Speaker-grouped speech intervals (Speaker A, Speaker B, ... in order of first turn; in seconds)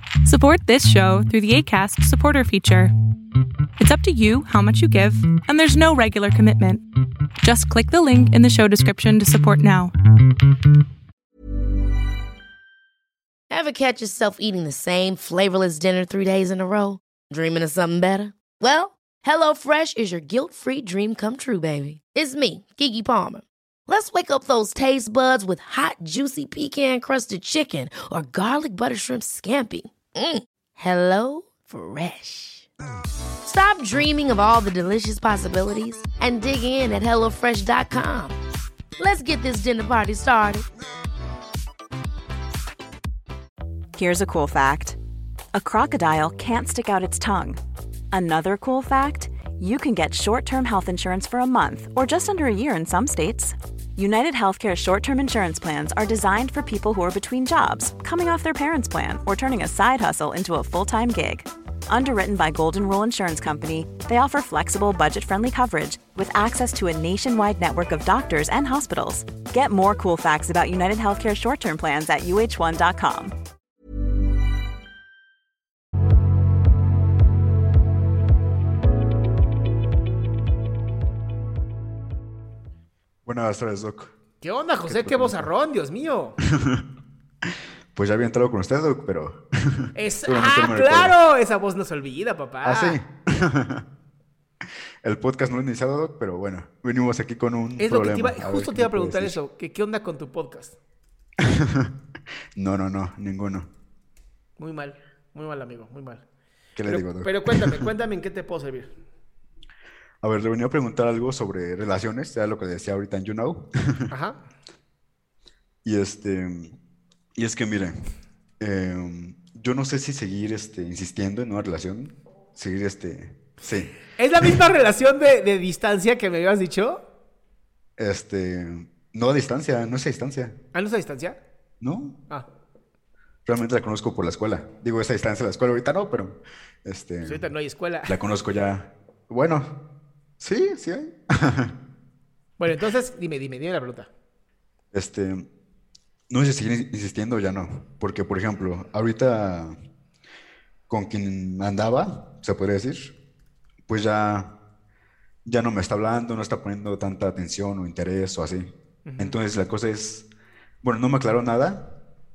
Speaker A: 0.2-2.9, 3.8-6.8, 7.4-9.9
Speaker B: 13.5-32.6, 33.4-38.4, 39.0-40.6
Speaker C: 43.9-45.0, 45.5-47.6, 48.1-73.3
Speaker D: 83.2-84.1, 84.8-85.5, 86.5-86.8, 87.9-91.2, 92.6-93.8, 95.0-99.4, 101.4-101.9, 102.6-103.7, 106.8-107.9, 110.2-114.1, 115.8-116.7, 117.3-117.9, 118.6-123.9, 128.0-130.5, 131.8-132.2, 133.4-137.4, 138.1-139.7, 140.4-141.7, 144.9-145.4, 146.3-149.7, 150.9-153.1, 153.9-154.5, 155.4-160.3, 160.8-161.8
Speaker E: 84.4-86.4, 89.9-93.0, 97.8-100.8, 104.6-106.2, 106.8-108.9, 114.1-114.5, 124.0-127.0, 130.7-131.4, 137.2-138.2, 142.6-144.1, 159.1-159.4